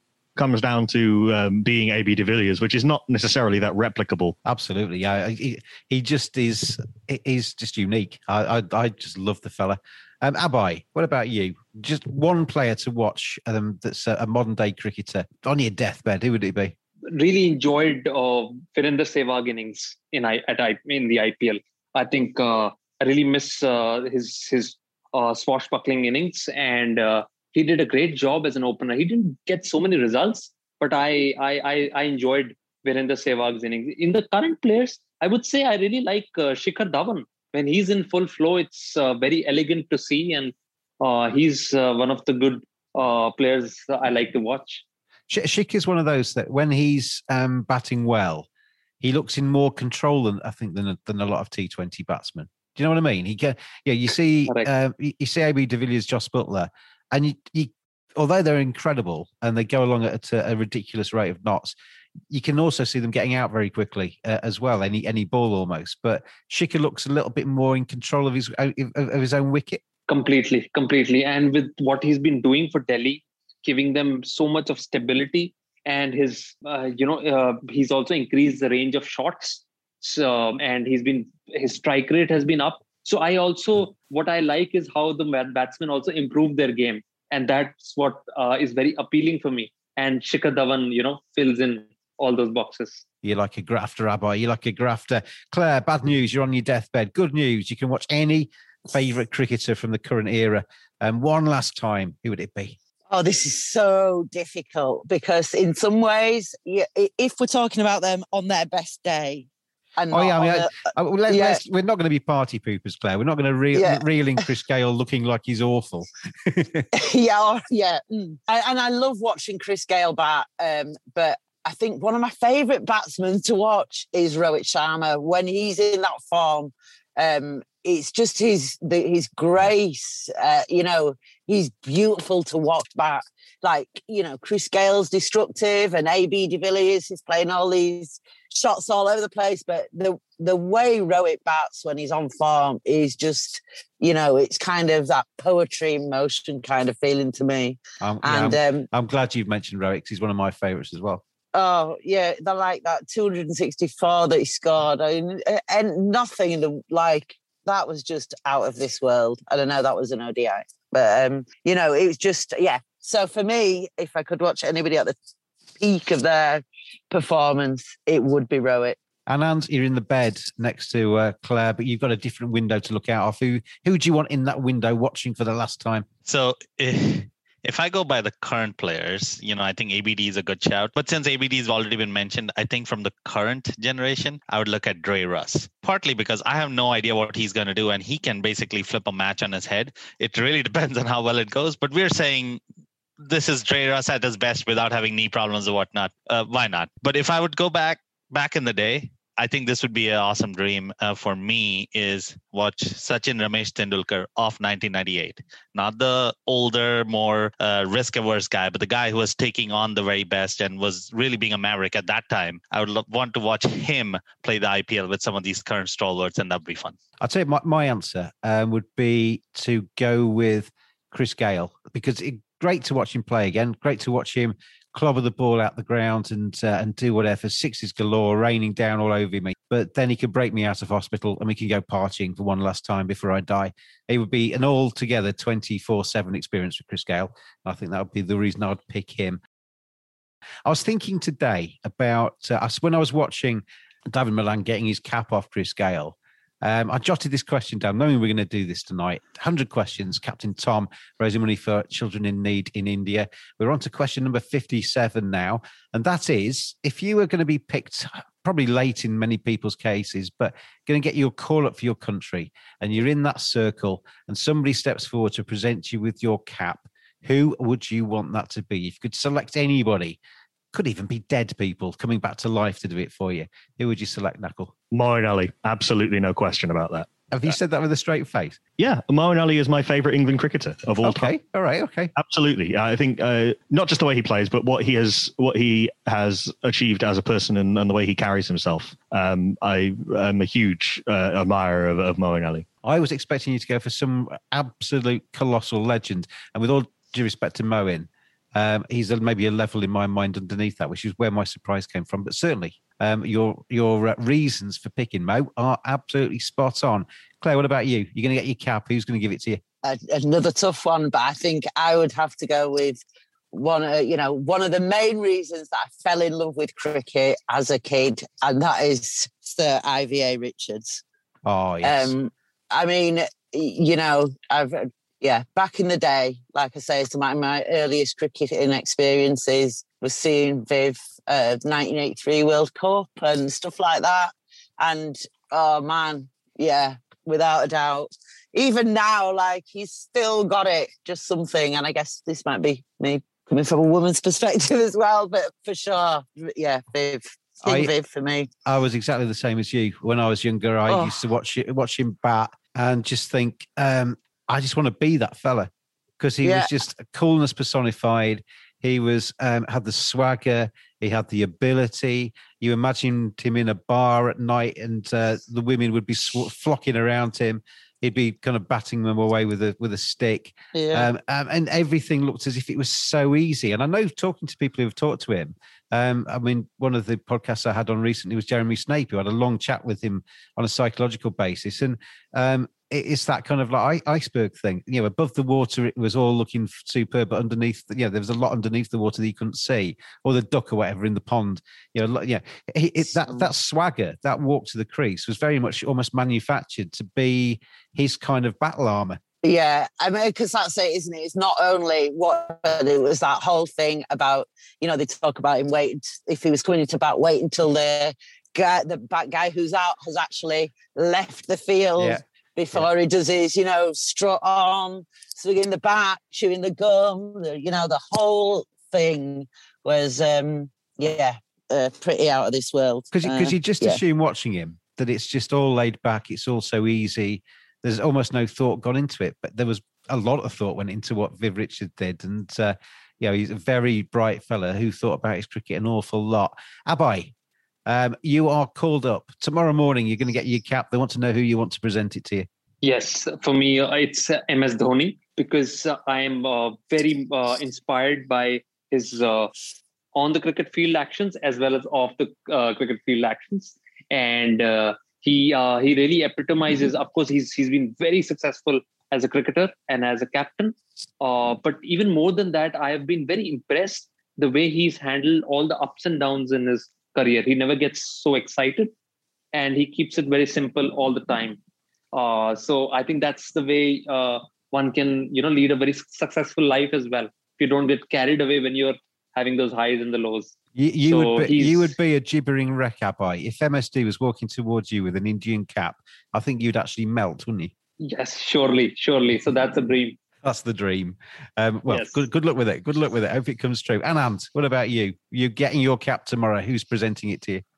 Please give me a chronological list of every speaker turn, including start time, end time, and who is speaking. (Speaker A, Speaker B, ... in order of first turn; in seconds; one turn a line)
Speaker A: 0.4-4.3
Speaker B: 4.4-16.7
Speaker C: 17.1-44.8
Speaker B: 45.3-48.5
Speaker B: 49.0-61.7
Speaker B: 62.3-69.8
Speaker C: 70.1-93.0
Speaker B: 93.2-102.8
Speaker D: 103.1-110.8
Speaker B: 110.1-116.9
Speaker D: 111.3-111.6
Speaker D: 113.8-114.0
Speaker D: 116.9-148.9
Speaker B: 148.0-151.2
Speaker D: 151.5-165.1
Speaker D: 165.8-169.0
Speaker B: 169.3-176.1
Speaker E: 176.2-192.6
Speaker E: 193.2-217.0
Speaker B: 217.2-239.4
Speaker B: 240.7-270.2
Speaker B: 270.7-274.7
Speaker A: 274.9-277.5
Speaker B: 277.3-278.6
Speaker A: 278.8-281.3
Speaker B: 281.0-282.1
Speaker A: 282.2-292.6
Speaker B: 292.8-309.6
Speaker D: 309.8-313.0
Speaker D: 313.5-321.0
Speaker B: 321.4-322.1
Speaker D: 321.8-348.5
Speaker B: 347.6-347.9
Speaker B: 348.6-399.2
Speaker D: 350.9-351.2
Speaker D: 356.4-356.7
Speaker D: 370.7-371.1
Speaker D: 399.4-424.0
Speaker B: 412.0-412.2
Speaker B: 423.1-437.3
Speaker B: 437.9-442.5
Speaker C: 442.8-449.5
Speaker C: 450.1-468.9
Speaker C: 469.5-471.6
Speaker C: 472.1-480.5
Speaker B: 480.7-487.7
Speaker C: 481.1-481.9
Speaker C: 488.0-490.2
Speaker B: 490.4-497.6
Speaker C: 491.9-492.2